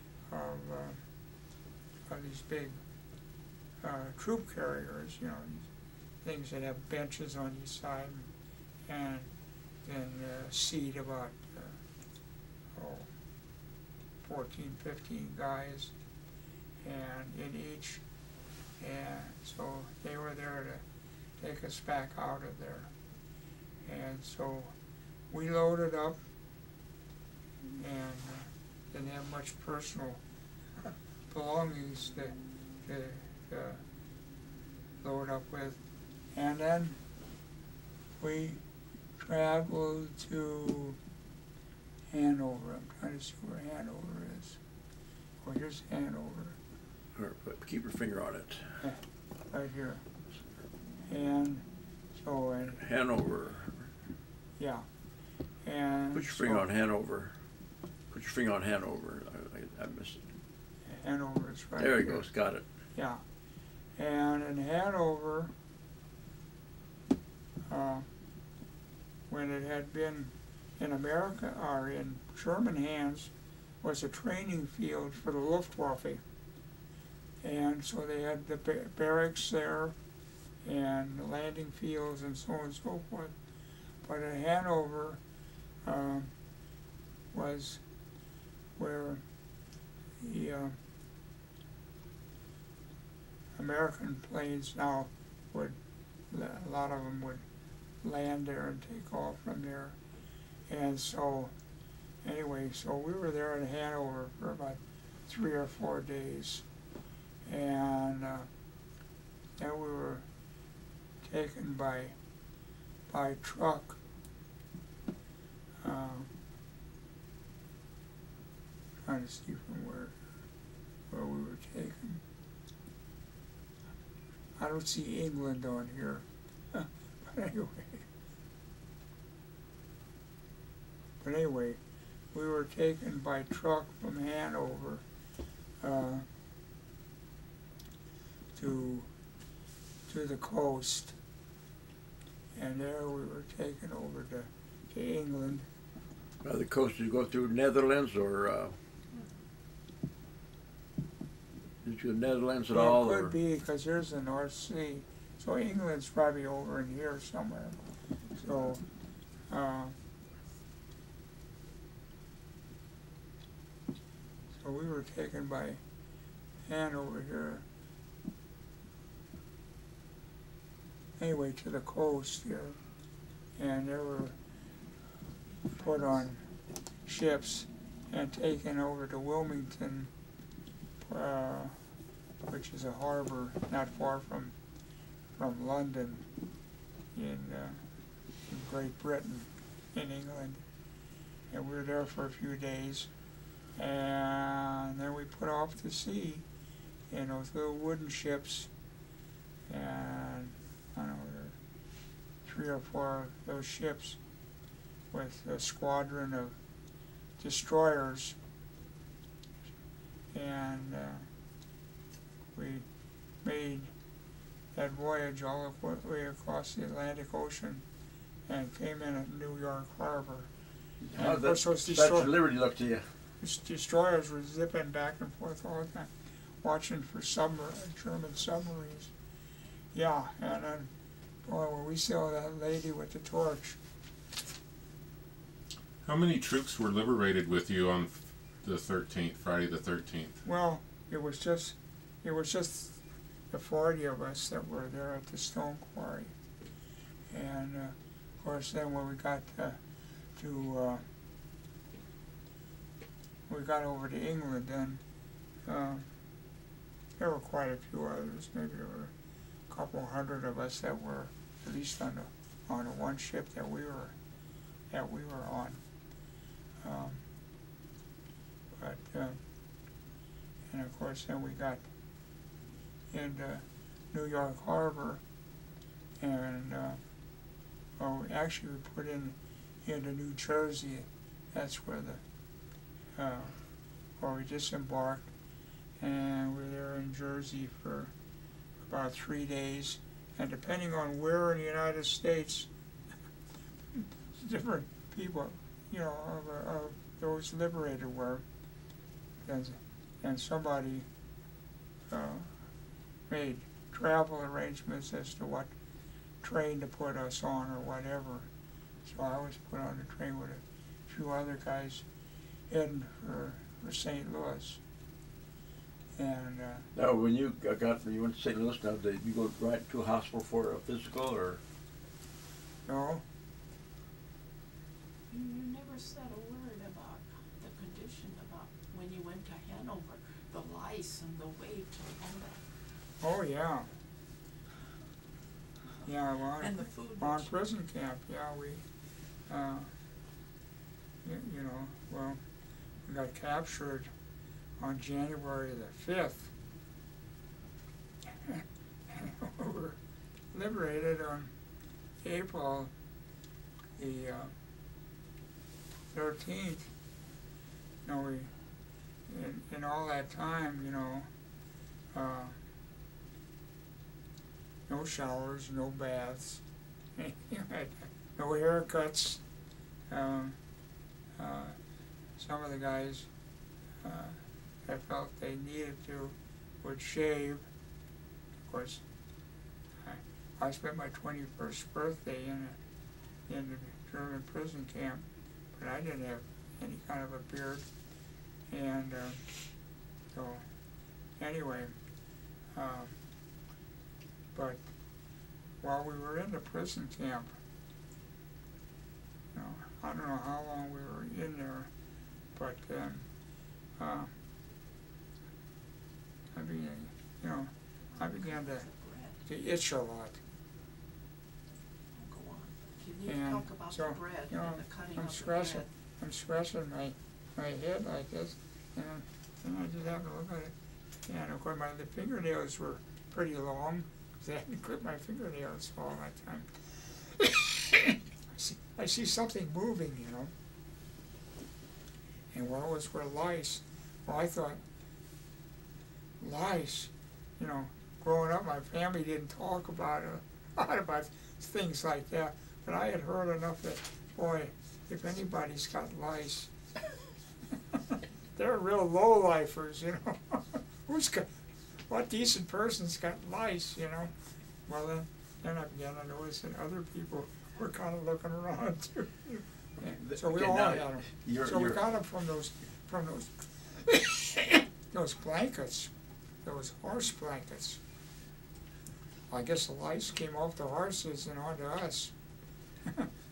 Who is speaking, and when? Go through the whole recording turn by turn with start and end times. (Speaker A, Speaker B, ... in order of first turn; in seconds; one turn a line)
Speaker A: 0.3-1.0
Speaker A: 2.1-2.8
Speaker A: 3.8-5.7
Speaker A: 6.2-8.3
Speaker A: 8.9-9.3
Speaker A: 9.8-11.8
Speaker A: 12.7-13.1
Speaker A: 14.2-15.9
Speaker A: 16.8-18.0
Speaker A: 18.8-20.8
Speaker A: 21.4-22.9
Speaker A: 23.8-24.7
Speaker A: 25.3-26.2
Speaker A: 27.6-30.2
Speaker A: 31.3-33.8
Speaker A: 35.0-35.8
Speaker A: 36.3-37.0
Speaker A: 38.2-38.6
Speaker A: 39.2-41.0
Speaker A: 42.1-44.6
Speaker A: 45.4-46.6
Speaker B: 47.1-48.8
Speaker A: 48.8-50.0
Speaker A: 51.1-52.8
Speaker B: 52.8-53.9
Speaker A: 54.6-54.9
Speaker A: 55.6-56.6
Speaker B: 56.1-57.3
Speaker B: 58.1-60.3
Speaker A: 60.9-62.2
Speaker B: 61.8-62.6
Speaker A: 62.9-63.2
Speaker A: 64.0-65.5
Speaker A: 67.7-68.1
Speaker A: 69.3-76.2
Speaker A: 77.4-79.9
Speaker A: 80.6-83.3
Speaker A: 84.0-85.2
Speaker A: 85.8-86.3
Speaker A: 87.3-87.8
Speaker A: 88.8-89.2
Speaker A: 90.2-90.8
Speaker A: 93.5-95.8
Speaker A: 96.3-97.4
Speaker A: 98.0-100.0
Speaker A: 100.7-101.5
Speaker A: 102.2-106.6
Speaker A: 107.5-108.5
Speaker A: 109.6-110.2
Speaker A: 111.2-112.1
Speaker A: 113.1-114.0
Speaker A: 115.8-116.3
Speaker A: 119.0-120.1
Speaker A: 121.1-122.2
Speaker A: 124.6-128.1
Speaker A: 131.2-131.8
Speaker A: 132.3-135.0
Speaker A: 135.8-136.2
Speaker A: 138.6-139.1
Speaker A: 140.1-141.1
Speaker A: 142.6-145.7
Speaker B: 146.4-148.7
Speaker B: 151.8-153.4
Speaker A: 152.7-157.8
Speaker A: 158.4-158.8
Speaker A: 159.5-159.9
Speaker A: 164.6-165.8
Speaker A: 166.7-167.6
Speaker A: 171.2-172.8
Speaker A: 173.6-174.3
Speaker A: 175.8-176.4
Speaker A: 177.0-180.1
Speaker A: 181.0-181.8
Speaker A: 182.5-184.5
Speaker A: 185.4-186.2
Speaker A: 187.1-187.8
Speaker A: 188.5-190.6
Speaker A: 191.5-193.1
Speaker A: 193.8-196.4
Speaker A: 197.1-198.7
Speaker A: 199.7-201.6
Speaker A: 202.4-204.2
Speaker A: 205.1-206.5
Speaker A: 207.4-208.4
Speaker A: 210.3-211.3
Speaker A: 212.5-212.8
Speaker A: 213.4-213.9
Speaker A: 214.7-217.8
Speaker A: 218.5-220.5
Speaker B: 221.0-223.0
Speaker A: 221.2-222.3
Speaker A: 223.4-226.1
Speaker A: 226.6-229.1
Speaker A: 229.9-230.9
Speaker A: 231.4-233.8
Speaker C: 236.0-240.4
Speaker A: 240.4-243.0
Speaker A: 243.5-246.3
Speaker A: 247.3-249.8
Speaker A: 250.3-251.0
Speaker A: 253.5-255.0
Speaker A: 255.7-256.1
Speaker A: 257.2-259.1
Speaker A: 259.7-264.1
Speaker A: 264.9-265.8
Speaker A: 266.8-267.2
Speaker A: 268.8-269.4
Speaker A: 270.7-271.8
Speaker A: 273.1-275.2
Speaker A: 276.2-277.0
Speaker A: 278.0-282.2
Speaker A: 283.1-283.6
Speaker A: 284.2-285.3
Speaker A: 286.0-288.1
Speaker A: 288.9-292.7
Speaker A: 293.9-298.4
Speaker A: 299.4-301.1
Speaker A: 302.1-302.5
Speaker A: 303.3-305.7
Speaker A: 306.4-308.5
Speaker A: 309.0-312.0
Speaker A: 312.7-314.8
Speaker A: 316.1-316.9
Speaker B: 316.9-321.6
Speaker A: 322.9-323.2
Speaker D: 325.3-332.6
Speaker A: 333.2-333.9
Speaker A: 336.0-338.8
Speaker D: 336.6-337.5
Speaker A: 339.5-339.9
Speaker A: 341.2-342.4
Speaker A: 343.0-344.1
Speaker A: 344.8-346.5
Speaker A: 348.4-350.0
Speaker A: 350.5-351.5
Speaker A: 352.2-352.9
Speaker A: 354.0-354.5
Speaker A: 356.1-356.9
Speaker A: 358.0-358.5
Speaker A: 359.3-361.3
Speaker A: 362.1-362.6
Speaker A: 364.9-366.6
Speaker A: 367.1-369.4
Speaker A: 370.1-370.6
Speaker A: 371.4-371.8
Speaker A: 372.4-373.3
Speaker A: 374.0-377.6
Speaker A: 378.7-379.0
Speaker A: 380.0-382.8
Speaker A: 383.5-387.9
Speaker A: 388.7-389.4
Speaker A: 390.3-390.6
Speaker A: 391.4-391.9
Speaker A: 392.7-393.1
Speaker A: 394.5-394.8
Speaker A: 395.8-397.5
Speaker A: 399.5-401.9
Speaker A: 402.5-403.3
Speaker A: 404.0-404.3
Speaker A: 406.5-408.9
Speaker D: 408.8-409.4
Speaker A: 409.4-410.4
Speaker D: 412.1-415.9
Speaker A: 413.2-420.7
Speaker A: 421.3-430.5
Speaker A: 432.5-434.8
Speaker A: 436.4-446.7
Speaker A: 447.9-451.5
Speaker A: 452.1-454.3
Speaker A: 454.9-466.1
Speaker B: 460.0-462.0
Speaker A: 466.6-468.0
Speaker A: 469.5-472.3